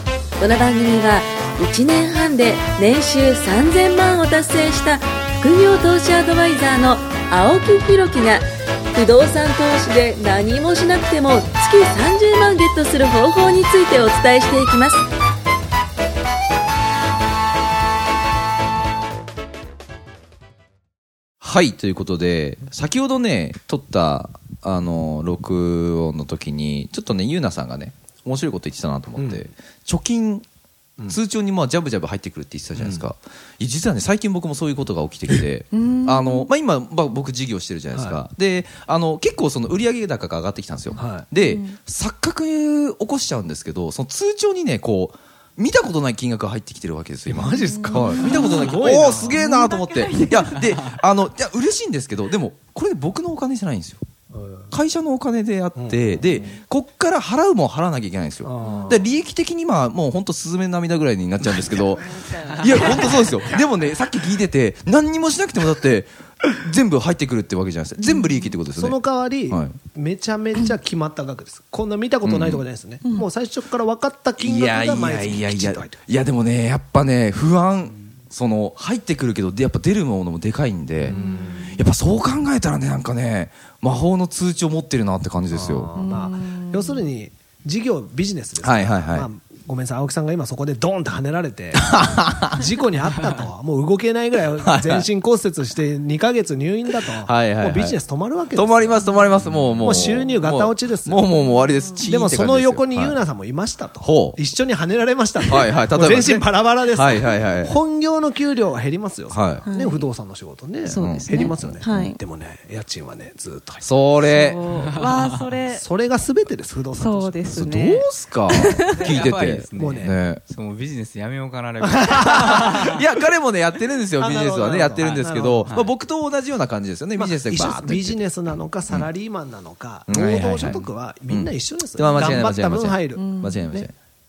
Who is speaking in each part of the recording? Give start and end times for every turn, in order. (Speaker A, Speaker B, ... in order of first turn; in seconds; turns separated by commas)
Speaker A: 0.4-8.4, Speaker A: 8.9-15.0, Speaker B: 21.4-30.4, Speaker C: 29.2-29.5, Speaker B: 31.1-54.0, Speaker C: 32.8-33.0, Speaker D: 35.7-36.5, Speaker C: 37.9-38.2, Speaker C: 41.0-41.3, Speaker D: 41.4-41.8, Speaker C: 47.3-49.4, Speaker D: 47.8-48.6, Speaker D: 49.3-50.4, Speaker C: 54.3-54.7, Speaker B: 54.7-69.0, Speaker C: 55.8-56.5, Speaker C: 58.4-59.1, Speaker E: 62.5-63.3, Speaker C: 68.7-76.0, Speaker B: 69.5-69.8, Speaker B: 72.2-72.6, Speaker B: 74.4-86.0, Speaker C: 81.1-81.8, Speaker C: 85.5-99.0, Speaker D: 86.0-87.0, Speaker B: 88.6-89.3, Speaker B: 91.8-92.6, Speaker B: 94.6-95.1, Speaker B: 97.0-98.0, Speaker B: 98.5-103.2, Speaker E: 99.4-99.8, Speaker C: 99.8-101.3, Speaker C: 102.1-113.9, Speaker B: 104.0-104.4, Speaker B: 105.4-107.8, Speaker B: 109.3-109.6, Speaker D: 109.7-110.0, Speaker D: 110.9-112.2, Speaker B: 110.9-111.9, Speaker B: 113.8-114.8, Speaker D: 114.2-115.8, Speaker E: 114.7-115.5, Speaker C: 115.7-117.7, Speaker D: 116.9-119.1, Speaker B: 117.5-120.4, Speaker E: 119.0-123.0, Speaker C: 119.8-120.2, Speaker C: 121.8-122.4, Speaker B: 122.1-128.2, Speaker C: 124.2-125.7, Speaker E: 125.0-125.9, Speaker C: 127.2-133.3, Speaker B: 130.1-133.9, Speaker E: 130.6-130.9, Speaker D: 133.2-133.9